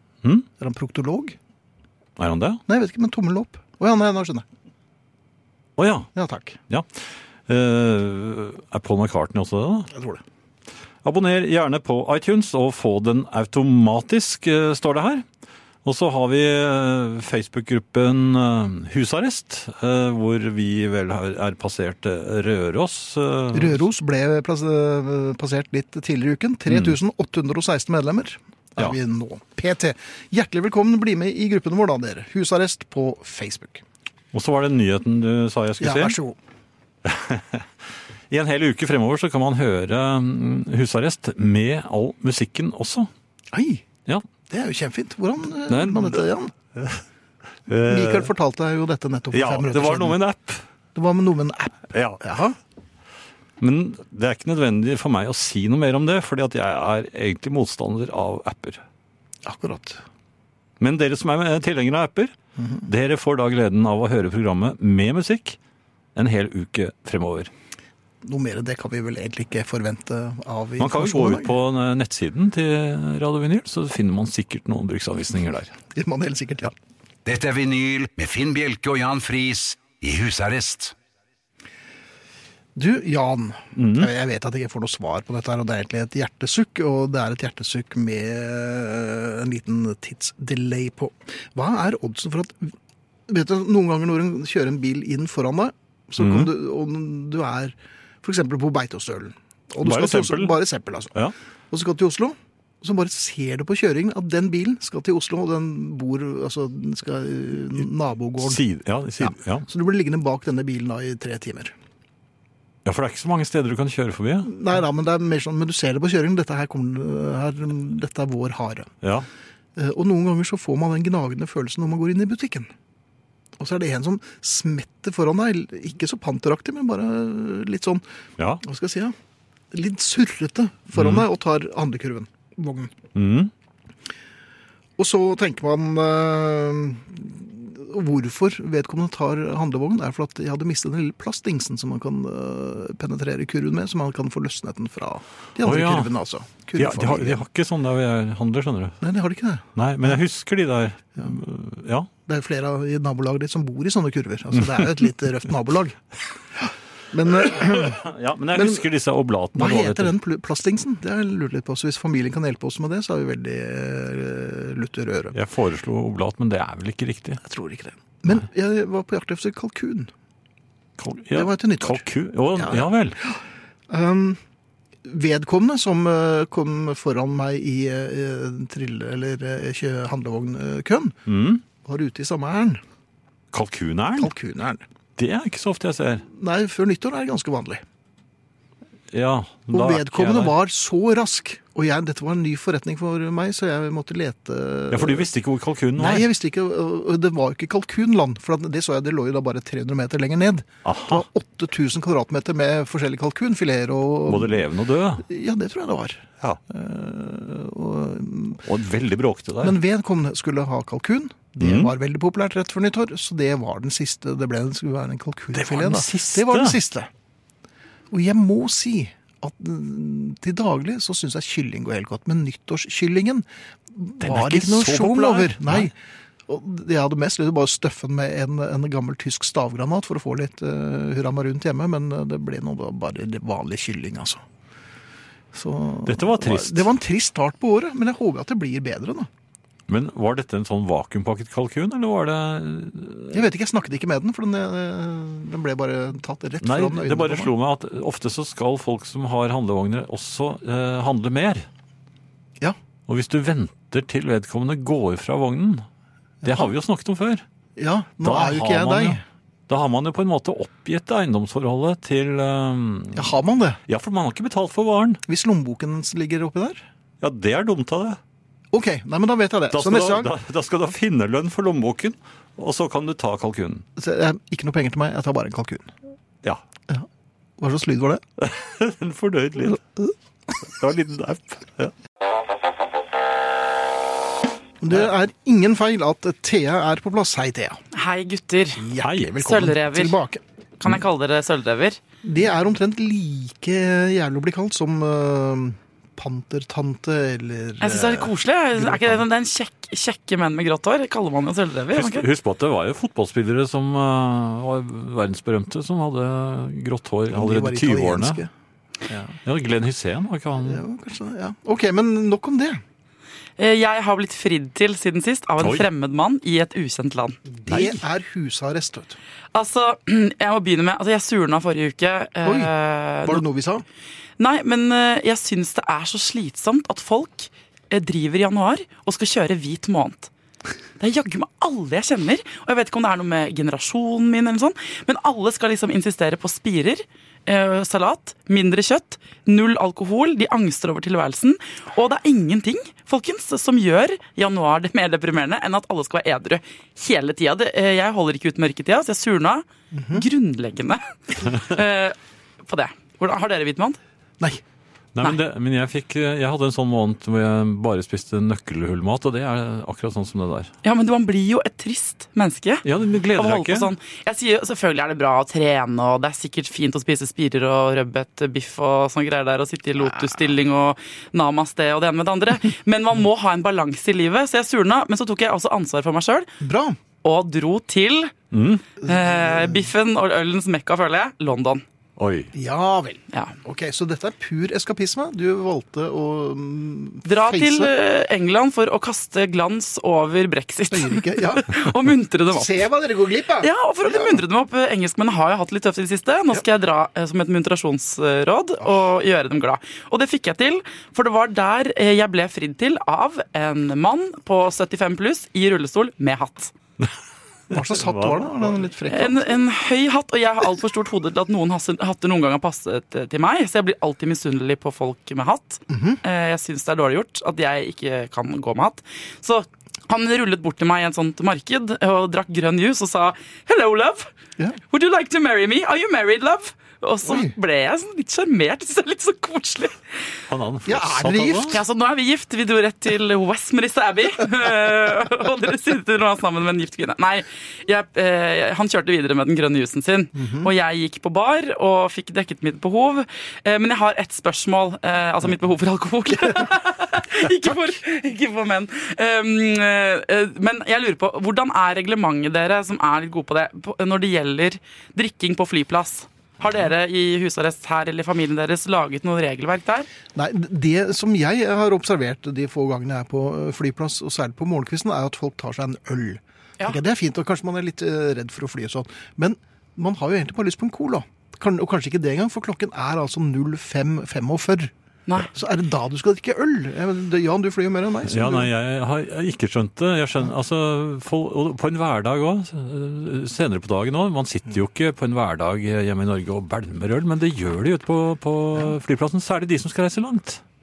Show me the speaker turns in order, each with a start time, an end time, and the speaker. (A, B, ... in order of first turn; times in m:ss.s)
0:00.6-0:01.4 A
0:02.2-0:02.6 B
0:02.7-0:04.4 A
0:05.8-0:06.1 B
0:06.2-0:06.6 A
0:07.5-0:09.9 B
0:09.9-0:10.2 A
0:11.0-0:15.2 B
0:15.8-0:23.8 B
0:23.5-0:33.8 A
0:26.7-0:27.0 B
0:34.3-0:36.2 B
0:35.8-0:36.4 A
0:37.0-0:37.7 B
0:38.3-0:43.1 B
0:43.5-0:43.8 A
0:44.5-0:46.5 A
0:45.7-0:46.2 B
0:46.8-0:47.0 B
0:47.7-0:48.3 B
0:47.9-0:50.2 A
0:49.3-0:50.6 B
0:51.0-0:52.6 A
0:51.9-0:52.4 B
0:53.6-0:58.8 B
0:59.4-1:00.0 A
1:00.8-1:02.3 B
1:02.6-1:02.9 A
1:02.9-1:05.6 B
1:06.2-1:07.5 B
1:08.2-1:11.5 A
1:10.8-1:15.7 B
1:15.9-1:16.8 A
1:17.3-1:21.0 C
1:22.8-1:32.8 A
1:23.8-1:24.1 B
1:33.3-1:48.6 A
1:36.2-1:36.5 B
1:39.8-1:40.5 B
1:48.4-1:49.7 B
1:49.2-1:51.7 A
1:52.8-1:54.5 B
1:54.4-1:58.9 A
1:59.0-1:59.3 B
1:59.8-2:02.7 A
2:03.6-2:08.0 A
2:08.6-2:09.2 A
2:09.7-2:13.0 A
2:11.0-2:11.3 B
2:13.2-2:13.5 B
2:15.0-2:27.4 A
2:25.6-2:26.1 B
2:26.8-2:29.0 B
2:29.0-2:30.2 A
2:29.8-2:32.1 B
2:32.3-2:36.0 A
2:34.6-2:35.1 B
2:36.6-2:38.0 A
2:37.5-2:40.2 B
2:38.5-2:38.8 A
2:39.6-2:45.4 A
2:45.3-2:47.4 B
2:47.4-2:50.1 A
2:51.0-2:53.2 B
2:51.3-2:54.4 A
2:55.0-3:01.2 A
3:01.3-3:01.6 B
3:01.8-3:02.8 A
3:03.5-3:04.3 B
3:04.2-3:04.8 A
3:05.2-3:06.2 B
3:06.3-3:07.8 A
3:09.1-3:10.6 B
3:09.7-3:15.3 A
3:14.9-3:16.3 B
3:16.0-3:24.6 A
3:20.8-3:21.3 B
3:24.3-3:25.2 B
3:25.2-3:28.6 A
3:28.6-3:29.8 B
3:29.6-3:37.1 A
3:31.6-3:31.9 B
3:35.5-3:36.8 B
3:38.1-3:46.0 A
3:44.2-3:45.9 B
3:46.5-3:54.4 A
3:55.5-3:59.3 A
3:56.1-3:56.9 B
3:59.9-4:03.5 B
4:03.3-4:07.5 A
4:06.6-4:11.7 B
4:13.1-4:15.9 B
4:16.4-4:16.7 A
4:16.4-4:17.4 B
4:17.8-4:19.2 A
4:18.2-4:23.3 B
4:23.1-4:23.8 A
4:23.9-4:25.2 B
4:25.3-4:26.8 A
4:27.2-4:28.2 B
4:28.7-4:30.3 A
4:29.7-4:33.8 B
4:34.0-4:35.9 A
4:37.6-4:38.2 A
4:38.4-4:39.9 B
4:40.6-4:41.9 B
4:44.8-4:47.8 A
4:47.9-4:48.9 D
4:48.8-4:50.4 A
4:49.0-4:49.4 B
4:49.4-4:50.2 D
4:50.8-4:52.0 D
4:52.2-4:59.2 A
4:57.8-5:02.3 D
5:01.9-5:08.4 B
5:07.3-5:08.5 A
5:09.1-5:09.4 A
5:09.4-5:10.8 B
5:10.6-5:12.8 A
5:13.6-5:17.4 D
5:15.6-5:15.9 B
5:17.6-5:19.2 A
5:19.5-5:23.4 D
5:22.4-5:22.7 A
5:23.2-5:23.8 A
5:24.4-5:30.3 D
5:31.0-5:52.2 D
5:49.9-5:50.2 A
5:52.7-5:54.0 D
5:55.2-6:00.7 B
6:00.8-6:02.8 D
6:02.8-6:03.9 B
6:03.4-6:16.5 D
6:16.6-6:17.0 A
6:17.2-6:18.3 D
6:18.5-6:18.8 B
6:19.0-6:19.9 A
6:19.0-6:21.8 D
6:22.2-6:22.5 B
6:22.5-6:27.9 A
6:27.2-6:32.8 D
6:30.9-6:31.7 A
6:32.5-6:34.4 A
6:33.6-6:46.7 D
6:47.7-6:49.6 A
6:47.7-6:48.8 B
6:49.1-7:04.3 D
6:55.9-6:56.2 A
7:04.9-7:10.0 D
7:07.2-7:07.5 A
7:10.5-7:11.8 B
7:10.9-7:11.8 A
7:11.7-7:40.1 D
7:20.4-7:20.7 A
7:40.3-7:58.7 A
7:58.3-8:10.6 B